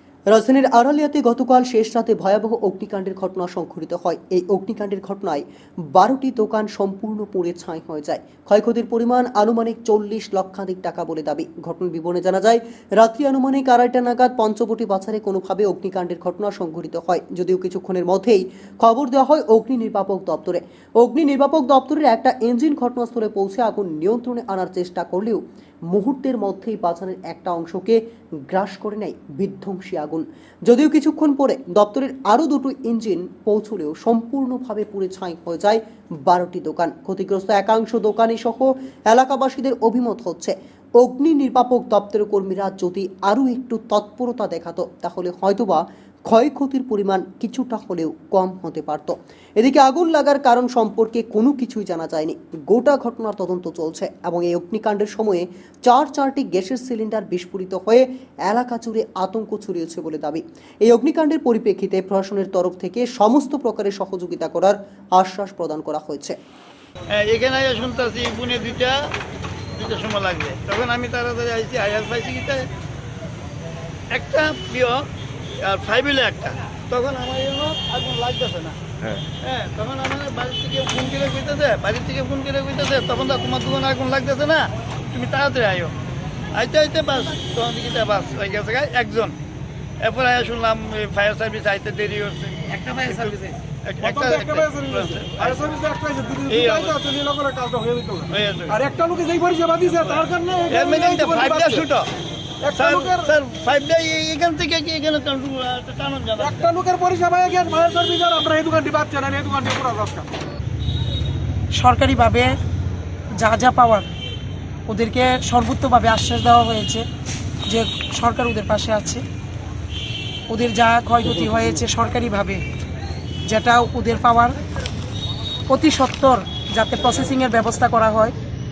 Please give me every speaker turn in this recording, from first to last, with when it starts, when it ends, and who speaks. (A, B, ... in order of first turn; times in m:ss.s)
0:00.3-1:06.4 A
1:07.1-1:09.0 B
1:09.8-1:12.6 B
1:14.1-1:15.1 B
1:15.6-1:25.9 B
1:26.5-1:29.4 B
1:30.0-1:35.7 B
1:34.0-1:41.9 C
1:36.5-1:37.0 B
1:38.3-1:38.8 B
1:40.7-1:42.1 B
1:42.6-1:43.3 C
1:42.7-1:46.6 B
1:46.4-1:50.3 C
1:51.7-1:52.6 D
1:53.4-1:54.1 D
1:54.9-1:57.0 D
1:57.7-1:59.2 D
2:00.5-2:02.6 D
2:01.2-2:01.8 A
2:03.5-2:04.6 D
2:05.7-2:08.3 D